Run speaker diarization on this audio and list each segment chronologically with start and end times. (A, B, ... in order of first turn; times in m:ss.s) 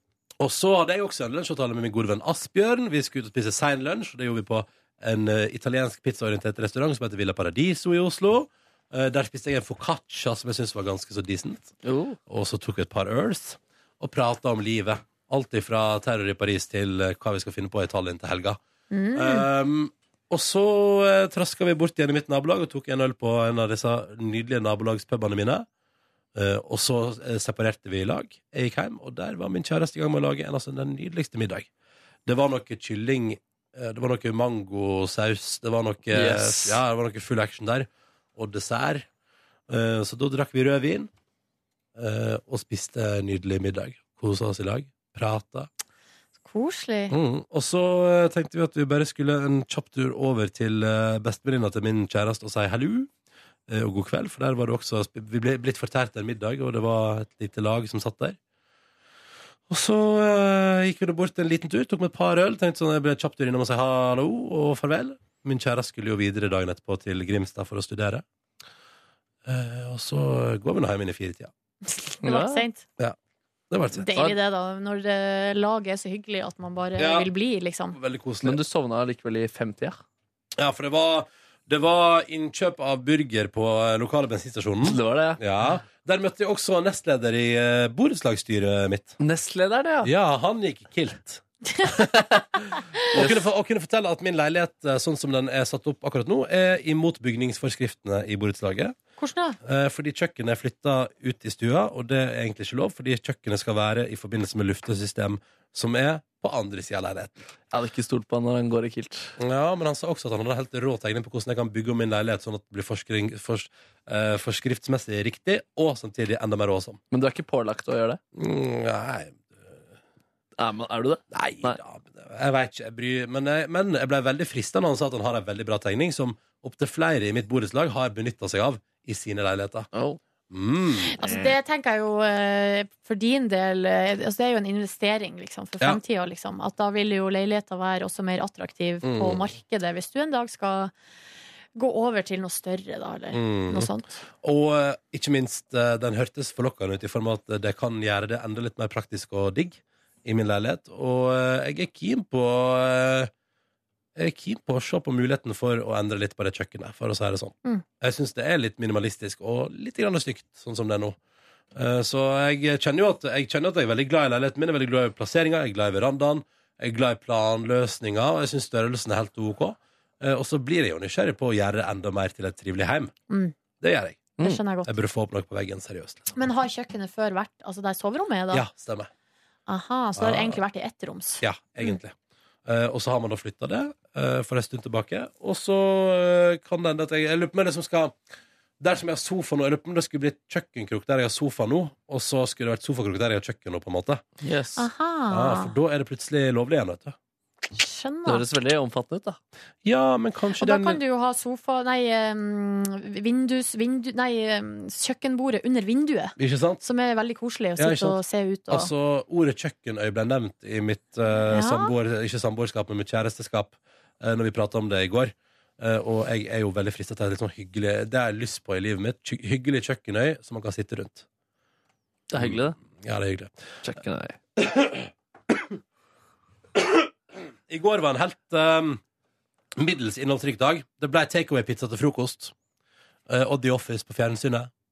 0:00.4-0:11.7 A
0:11.8-0:12.2 B
0:12.3-0:18.6 A
0:18.9-0:19.5 C
0:19.2-0:25.7 A
0:26.4-0:31.7 A
0:32.3-0:39.1 A
0:36.1-0:36.8 B
0:39.7-0:41.1 A
0:42.0-0:45.7 A
0:46.4-0:47.2 C
0:47.1-0:53.1 A
0:53.7-0:58.4 A
0:59.7-1:08.2 A
1:09.4-1:11.5 A
1:11.9-1:12.8 C
1:12.2-1:12.6 B
1:13.7-1:14.1 A
1:14.0-1:18.0 C
1:17.0-1:17.3 A
1:17.9-1:18.6 A
1:18.4-1:20.0 B
1:20.6-1:29.2 A
1:24.8-1:25.4 B
1:29.2-1:30.1 B
1:30.0-1:32.1 A
1:33.1-1:39.0 A
1:39.2-1:39.6 C
1:39.6-1:47.4 A
1:47.7-1:49.4 B
1:49.4-1:57.0 A
1:57.1-1:58.2 B
1:58.4-1:59.8 A
2:00.6-2:01.8 B
2:01.3-2:09.9 A
2:09.9-2:10.2 B
2:10.5-2:11.2 A
2:11.1-2:20.9 C
2:19.0-2:19.5 A
2:21.8-2:24.2 C
2:23.3-2:23.9 A
2:24.4-2:33.3 A
2:34.2-2:41.2 A
2:41.8-2:53.1 A
2:53.3-2:53.6 C
2:53.8-2:56.3 A
2:54.4-2:55.0 C
2:56.4-2:58.7 C
2:58.5-2:59.1 A
2:59.7-3:02.0 C
3:00.2-3:00.6 A
3:01.4-3:08.2 A
3:08.8-3:14.2 A
3:14.4-3:14.9 B
3:14.8-3:15.8 C
3:15.3-3:17.2 A
3:17.8-3:18.4 C
3:18.3-3:19.4 B
3:19.8-3:21.0 A
3:20.6-3:28.9 C
3:26.4-3:26.8 A
3:27.8-3:41.3 A
3:31.5-3:31.9 C
3:42.3-3:42.8 B
3:42.3-3:43.5 A
3:43.8-3:44.4 B
3:44.6-3:45.8 A
3:46.8-3:47.1 A
3:47.7-3:49.0 A
3:49.8-3:52.5 A
3:53.3-3:54.7 A